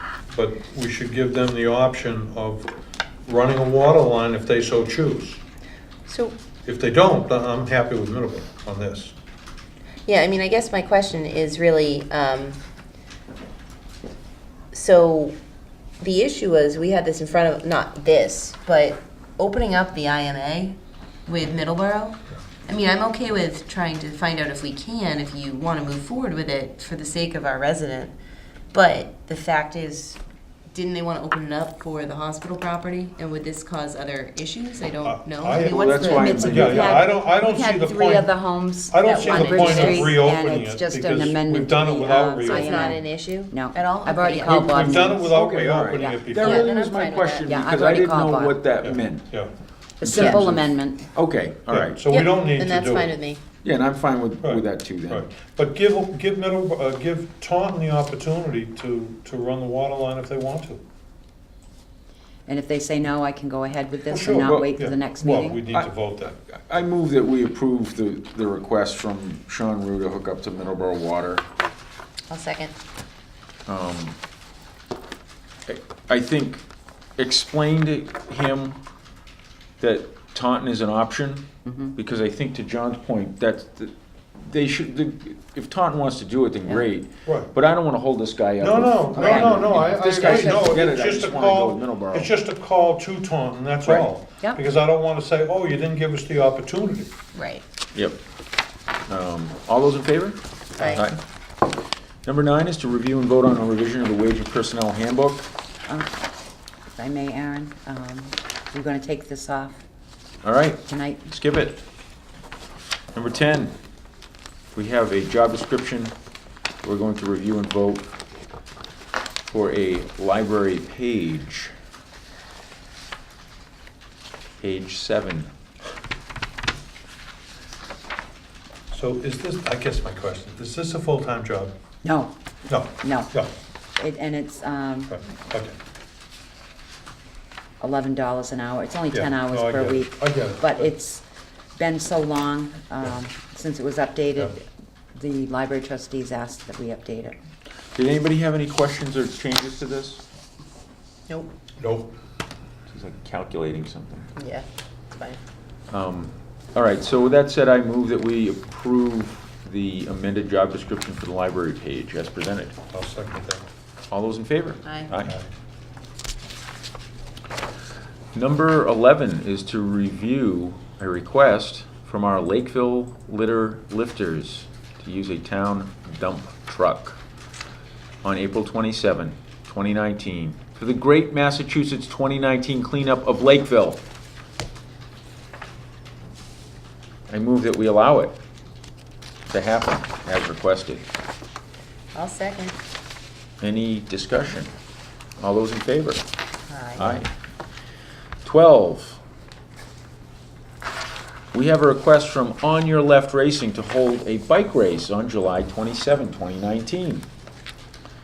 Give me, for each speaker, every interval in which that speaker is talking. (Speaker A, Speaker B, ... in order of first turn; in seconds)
Speaker A: 0.3-2.7, 3.3-5.4, 6.7-9.2, 35.0-35.9, 36.4-38.3, 38.9-42.9, 44.4-46.7, 48.8-50.7, 51.7-53.1, 54.4-60.8, 64.1-66.4, 87.3-87.5, 88.6-97.1, 128.9-131.7, 132.7-133.5, 135.1-135.8, 139.1-140.9, 151.8-152.1, 162.9-163.7, 165.2-165.5
Speaker B: 6.1-6.4, 10.1-12.6, 14.7-15.4, 16.0-28.1, 28.7-30.2, 30.7-36.6, 39.0-40.1, 42.4-45.1, 46.4-47.5, 52.1-53.4, 72.3-72.7, 90.2-90.8, 97.3-97.6, 100.8-101.0, 154.4-155.4, 164.8-165.1, 192.1-192.8, 196.7-197.2
Speaker C: 35.7-37.0, 45.4-49.3, 50.1-50.6, 51.1-52.0, 53.6-55.3, 64.4-64.8, 66.5-71.5, 73.7-74.2, 75.7-76.6, 77.2-78.8, 79.8-92.3, 97.9-98.2, 99.1-101.2, 102.2-105.5, 110.4-111.8, 113.2-113.8, 114.7-116.1, 116.8-118.2, 119.5-121.7, 124.6-125.5, 147.9-150.2, 152.9-154.3, 155.9-162.8, 164.1-165.3, 168.3-177.2, 178.2-184.0, 187.3-188.4, 189.5-191.1, 193.6-194.7, 195.4-196.3, 197.0-197.3, 198.4-199.2, 201.5-207.3
Speaker D: 35.7-45.4, 46.0-46.7, 47.5-48.6, 50.0-51.1, 62.5-65.6, 81.7-81.9, 89.2-90.6, 106.9-109.8, 110.9-111.3, 132.0-132.3, 133.0-133.3, 134.0-135.2, 137.8-141.2, 141.8-144.6, 145.2-147.4